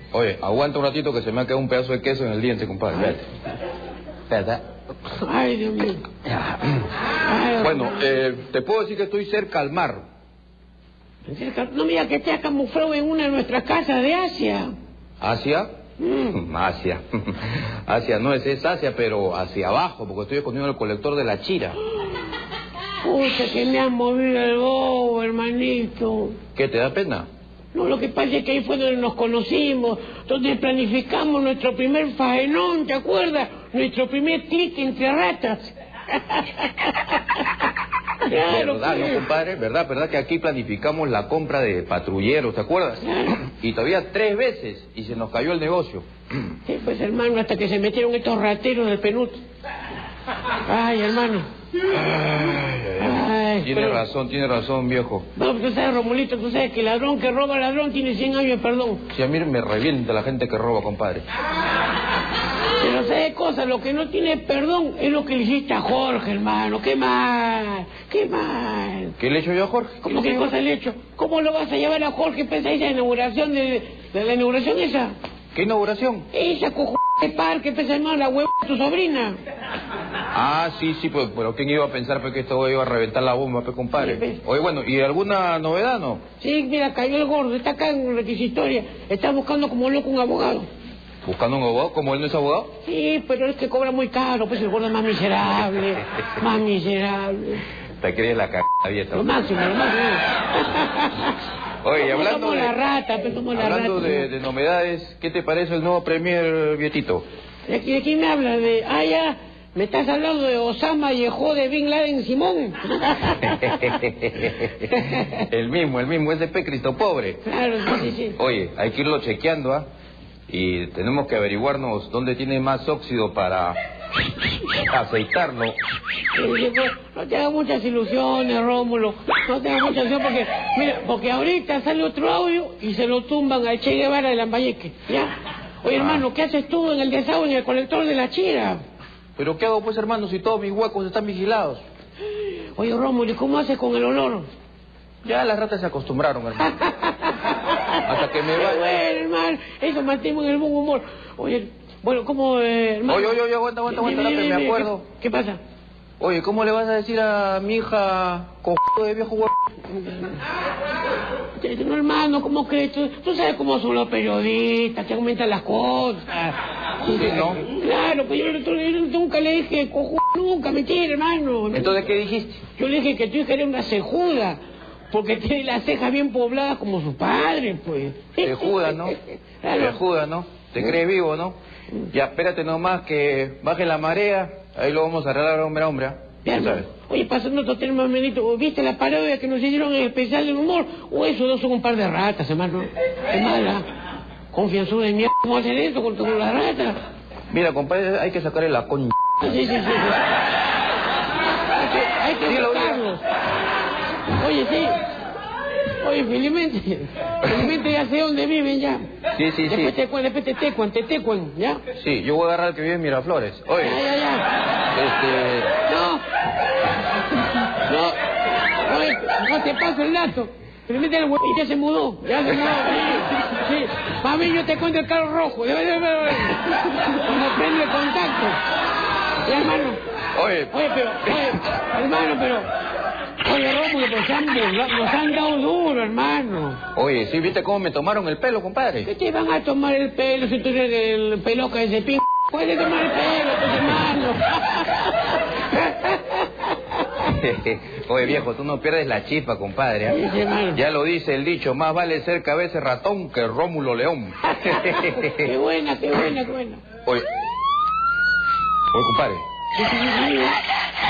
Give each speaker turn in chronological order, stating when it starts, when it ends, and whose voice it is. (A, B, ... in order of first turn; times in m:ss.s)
0:00.1-0:03.3 A
0:04.3-0:04.6 A
0:05.2-0:06.0 B
0:06.3-0:06.8 A
0:07.3-0:08.1 B
0:07.6-0:10.0 A
0:11.3-0:14.7 B
0:15.2-0:15.7 A
0:16.0-0:16.4 B
0:16.3-0:21.8 A
0:23.0-0:26.4 B
0:26.6-0:27.3 A
0:27.7-0:37.4 B
0:38.2-0:39.2 B
0:38.3-0:43.0 A
0:43.0-0:43.4 B
0:43.6-0:46.1 A
0:46.7-0:49.4 B
0:50.7-0:51.5 B
0:51.9-0:55.3 A
0:53.0-0:54.0 B
0:55.4-0:59.0 B
0:59.1-1:01.3 A
1:02.8-1:09.2 B
1:09.2-1:10.6 A
1:10.0-1:15.1 B
1:15.5-1:16.3 A
1:16.3-1:19.4 B
1:20.3-1:26.2 A
1:24.0-1:24.4 B
1:26.4-1:30.7 B
1:31.2-1:32.7 A
1:32.8-1:37.6 B
1:38.0-1:39.3 A
1:39.1-1:41.4 B
1:41.8-1:42.7 A
1:42.0-1:44.3 B
1:43.5-1:47.3 A
1:47.7-1:53.9 B
1:53.4-1:55.0 A
1:55.5-1:57.4 A
1:57.4-1:58.4 B
1:58.4-1:59.9 A
2:00.5-2:03.8 A
2:04.8-2:05.8 A
2:06.3-2:18.8 B
2:16.0-2:16.2 A
2:19.4-2:21.8 A
2:22.8-2:24.5 B
2:25.2-2:26.8 A
2:26.6-2:35.6 B
2:28.0-2:28.9 A
2:33.1-2:35.0 A
2:36.2-2:39.5 A
2:39.9-2:40.4 B
2:41.6-2:46.5 B
2:47.0-2:47.6 A
2:47.6-2:52.0 B
2:51.7-2:52.6 A
2:52.8-2:54.6 B
2:55.1-3:00.0 B
2:58.4-2:59.2 A
2:59.7-3:01.6 A
3:02.1-3:06.9 A
3:06.4-3:13.8 B
3:14.5-3:17.0 B
3:17.5-3:19.1 A
3:19.4-3:20.2 B
3:21.7-3:23.2 B
3:22.4-3:23.0 A
3:24.4-3:25.0 B
3:26.0-3:29.1 B
3:29.4-3:30.0 A
3:29.7-3:31.8 B
3:32.0-3:34.0 A
3:33.8-3:34.5 B
3:34.9-3:35.8 A
3:35.9-3:36.2 B
3:37.8-3:38.2 B
3:38.8-3:48.6 B
3:49.4-3:50.0 B
3:50.4-3:50.7 A
3:50.7-3:52.7 B
3:53.4-3:56.8 B
3:57.0-3:59.1 A
3:59.1-4:06.6 B
4:07.2-4:10.2 A
4:10.1-4:10.8 B
4:10.7-4:15.5 A
4:14.6-4:16.8 B
4:18.9-4:19.4 A
4:19.8-4:20.6 B